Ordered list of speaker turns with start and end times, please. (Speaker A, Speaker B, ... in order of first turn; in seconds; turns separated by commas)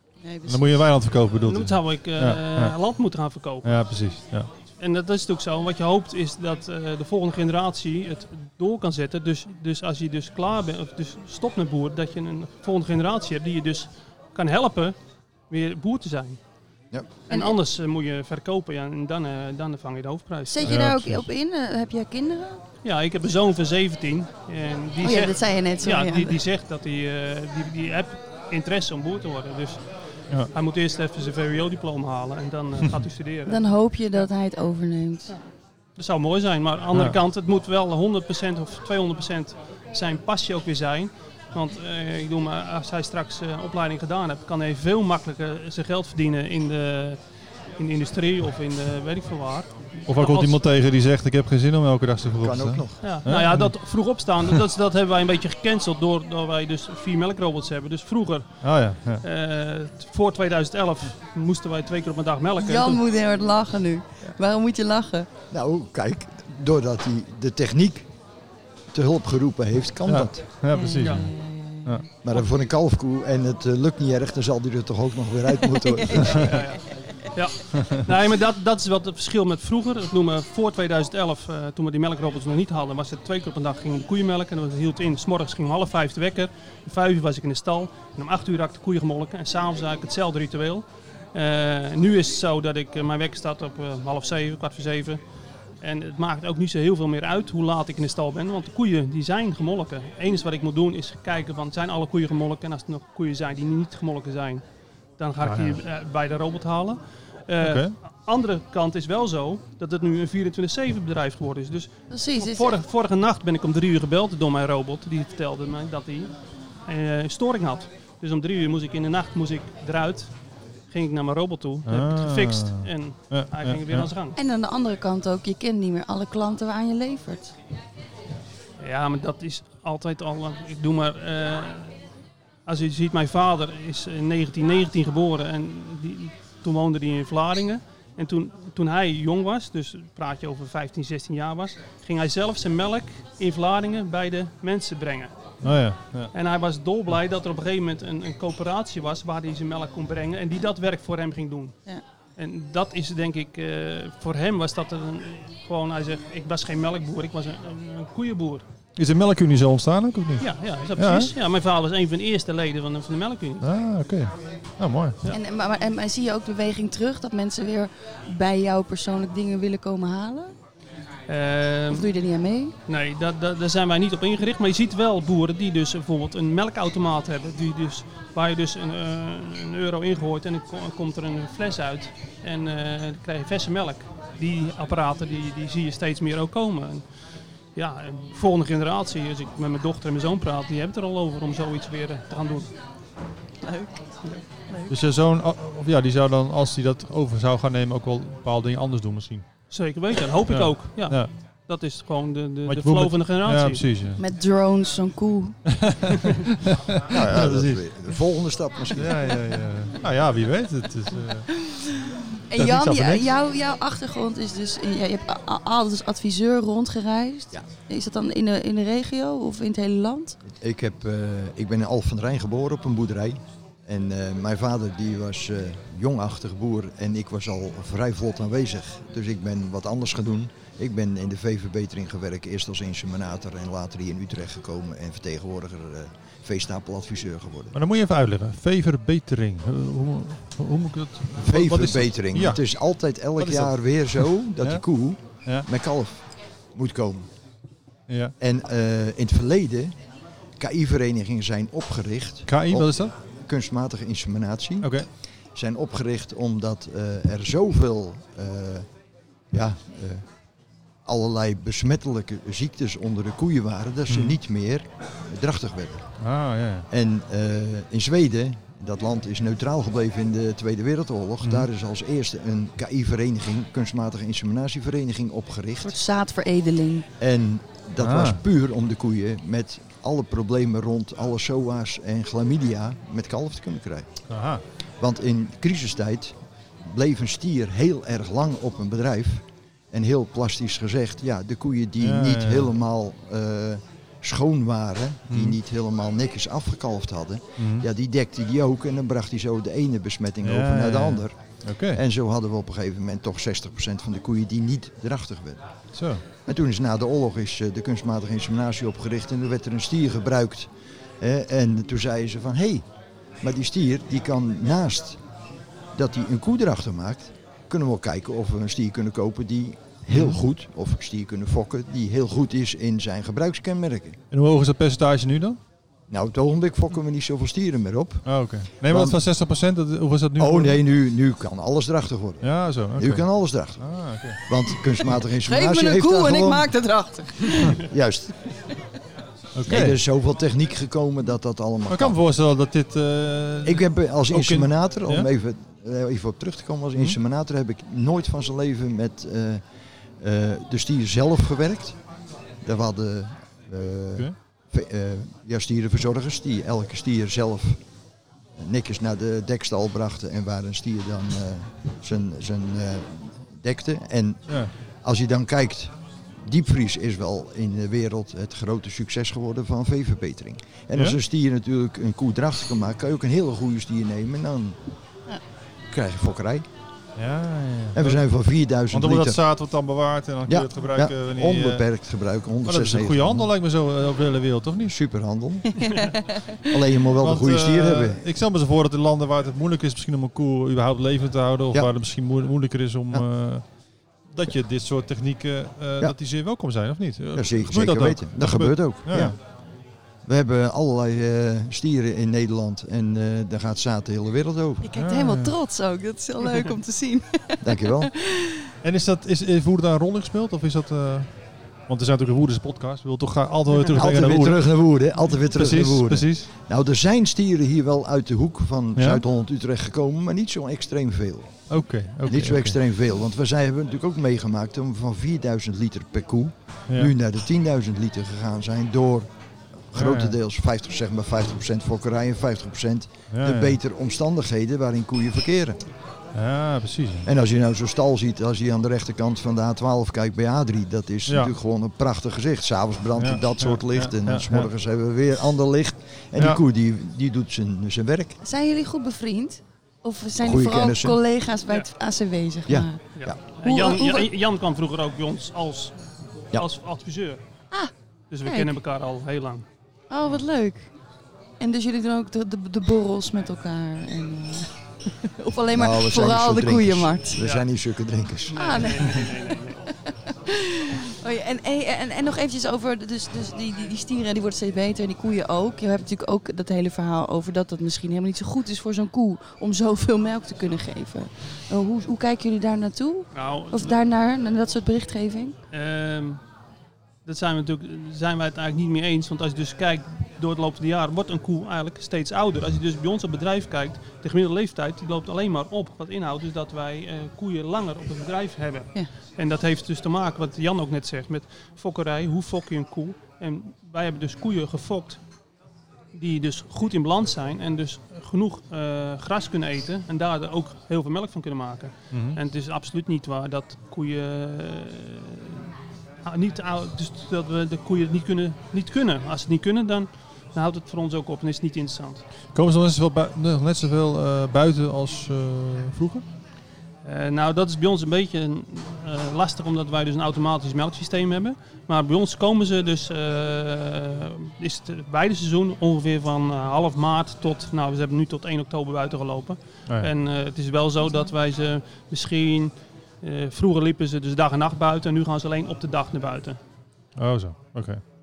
Speaker A: 0.2-0.7, Speaker B: 0.5-4.5, Speaker C: 1.4-3.7, Speaker C: 4.8-14.9, Speaker C: 15.5-16.4, Speaker A: 17.3-17.6, Speaker C: 17.3-20.8, Speaker A: 20.5-22.6, Speaker B: 20.6-21.3, Speaker C: 22.8-33.6, Speaker A: 25.0-26.4, Speaker A: 33.5-35.4, Speaker C: 36.0-47.2, Speaker C: 47.8-50.6, Speaker B: 50.1-54.5, Speaker D: 52.4-53.1, Speaker C: 53.0-63.0, Speaker B: 58.6-59.2, Speaker A: 62.6-65.3, Speaker D: 65.5-68.1, Speaker D: 68.9-70.5, Speaker B: 70.1-71.3, Speaker A: 70.7-72.0, Speaker C: 71.0-71.2, Speaker D: 72.2-76.6, Speaker A: 75.7-76.8, Speaker C: 76.2-95.2, Speaker C: 95.8-104.6, Speaker C: 105.2-116.3, Speaker B: 105.4-105.8, Speaker B: 107.6-107.9, Speaker A: 112.1-112.8, Speaker C: 116.8-124.4, Speaker B: 121.9-124.1, Speaker A: 124.4-127.5, Speaker C: 128.8-132.0, Speaker C: 132.7-145.8, Speaker B: 145.6-146.3, Speaker C: 146.3-151.8, Speaker C: 152.4-158.7, Speaker B: 159.0-161.3, Speaker C: 160.4-163.7, Speaker B: 163.6-165.2, Speaker A: 165.3-170.5, Speaker C: 171.3-172.1, Speaker A: 171.9-172.8, Speaker C: 172.9-187.1, Speaker C: 187.7-192.7, Speaker A: 193.6-194.9, Speaker B: 194.9-199.4, Speaker C: 199.7-203.8, Speaker B: 200.5-201.3, Speaker B: 202.7-204.2, Speaker A: 204.2-205.6, Speaker B: 205.7-206.2, Speaker B: 206.7-207.8, Speaker D: 207.1-209.3, Speaker B: 208.9-211.5, Speaker A: 211.7-220.4, Speaker B: 212.6-213.3, Speaker D: 220.5-237.8, Speaker B: 237.7-242.6, Speaker D: 241.4-247.2, Speaker B: 243.4-244.8, Speaker B: 248.1-248.3, Speaker D: 248.4-249.9, Speaker D: 250.6-258.9, Speaker B: 252.5-253.1, Speaker B: 254.8-255.1, Speaker D: 259.5-260.2, Speaker D: 261.1-266.1, Speaker B: 264.1-264.4, Speaker B: 266.2-266.9, Speaker D: 266.9-275.9, Speaker B: 271.4-271.7, Speaker A: 275.8-277.1, Speaker D: 277.2-284.1, Speaker B: 278.0-278.4, Speaker B: 284.3-284.6, Speaker D: 285.0-301.4, Speaker B: 292.0-292.7, Speaker B: 295.3-295.6, Speaker B: 297.6-297.9, Speaker B: 300.4-302.0, Speaker D: 301.9-305.6, Speaker B: 305.9-306.2, Speaker D: 306.5-312.9, Speaker D: 313.4-315.2, Speaker D: 315.9-324.2, Speaker B: 320.1-320.4, Speaker B: 324.3-325.6, Speaker D: 326.1-329.2, Speaker B: 328.2-330.8, Speaker D: 330.4-336.7, Speaker B: 332.4-334.4, Speaker A: 335.4-337.8, Speaker D: 337.8-338.5, Speaker B: 339.6-340.0, Speaker D: 339.7-342.2, Speaker B: 341.9-345.3, Speaker D: 343.6-349.6, Speaker D: 350.2-352.0, Speaker D: 352.6-357.8, Speaker D: 358.6-374.8, Speaker D: 375.9-376.7, Speaker B: 377.2-378.2, Speaker D: 377.9-379.4, Speaker B: 378.9-381.9, Speaker D: 380.5-383.5, Speaker B: 382.6-384.9, Speaker D: 384.8-388.2, Speaker A: 385.9-386.4, Speaker C: 385.9-386.2, Speaker B: 387.2-399.4, Speaker D: 397.3-399.5, Speaker D: 400.2-404.9, Speaker A: 404.8-408.6, Speaker B: 405.0-405.5, Speaker D: 407.6-408.1, Speaker B: 408.8-416.5, Speaker D: 413.9-421.8, Speaker B: 419.0-419.2, Speaker B: 421.7-422.8, Speaker D: 422.3-429.3, Speaker D: 429.9-435.8, Speaker B: 429.9-430.3, Speaker B: 433.3-433.8, Speaker B: 436.3-437.3, Speaker D: 437.2-448.4, Speaker B: 441.3-441.5, Speaker B: 443.2-444.7, Speaker A: 448.4-454.3, Speaker D: 450.4-451.2, Speaker D: 452.7-453.4, Speaker C: 453.1-457.7, Speaker C: 458.3-459.6, Speaker A: 458.4-458.7, Speaker A: 460.1-460.9, Speaker A: 461.6-464.7, Speaker A: 465.2-467.4, Speaker D: 465.7-468.6, Speaker C: 467.4-467.7, Speaker C: 468.5-469.8, Speaker A: 468.6-469.4, Speaker A: 471.2-485.6, Speaker C: 483.3-484.0, Speaker C: 485.7-486.4, Speaker C: 487.2-505.2, Speaker C: 506.1-515.7, Speaker B: 512.1-512.4, Speaker C: 516.2-522.2, Speaker B: 522.5-526.2, Speaker C: 527.0-546.6, Speaker B: 547.2-548.0